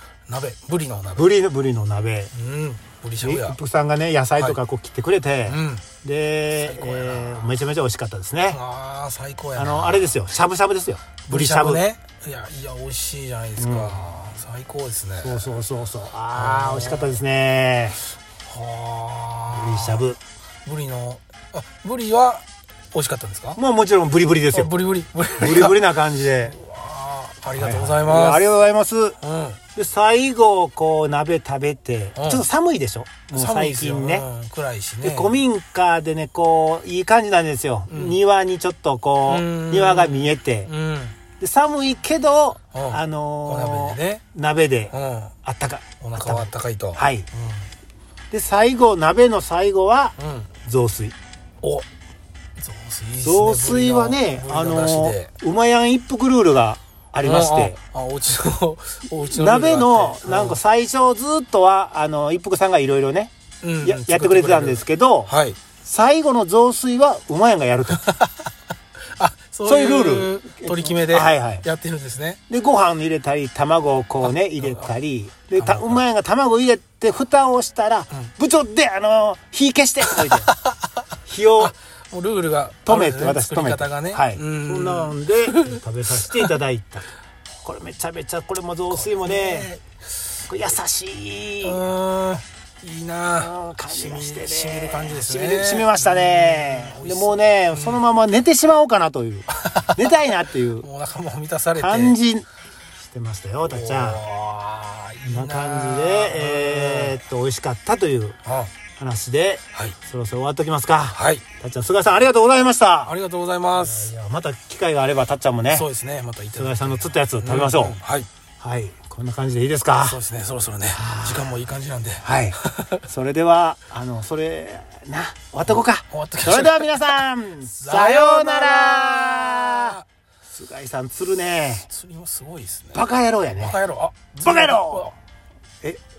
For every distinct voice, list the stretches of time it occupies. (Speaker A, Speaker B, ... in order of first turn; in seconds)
Speaker A: 0.3-1.3, 2.3-3.6, 5.5-5.8, 6.6-7.5, 8.5-10.1, 11.3-15.5, 16.4-17.2, 18.4-20.1, 20.6-23.6, 24.5-25.9, 26.4-28.5, 29.2-29.6, 32.2-32.4, 33.3-35.4, 37.9-38.2, 39.3-41.2, 42.7-44.2, 44.9-45.3, 46.0-47.7, 50.2-50.5, 51.6-51.9, 52.6-55.3, 57.2-60.6, 63.6-65.6, 67.9-68.5, 69.1-72.4, 74.2-74.9, 75.6-76.0, 80.1-81.1, 81.6-86.5, 88.9-89.8, 91.6-98.0, 99.5-102.2, 103.7-107.2, 108.5-108.7, 111.1-111.4, 113.1-114.1, 115.7-118.3, 120.0-123.0, 126.1-130.1, 131.9-135.1
Speaker B: 1.2-2.3, 3.2-8.6, 9.6-11.8, 13.6-14.0, 15.2-18.0, 19.5-20.2, 23.6-24.7, 25.4-26.6, 27.6-29.2, 29.8-34.2, 35.0-40.7, 41.4-44.9, 45.4-47.3, 48.3-51.1, 53.2-57.8, 59.3-65.3, 65.8-68.0, 69.7-71.7, 72.5-80.5, 81.3-81.7, 82.9-87.1, 87.6-89.7, 90.5-91.8, 93.4-100.9, 101.8-102.5, 103.0-104.2, 105.3-108.4, 109.0-113.2, 113.8-115.9, 116.5-118.0, 118.6-120.2, 121.0-121.4, 122.2-130.0, 130.5-131.9, 132.9-133.8, 134.4-135.1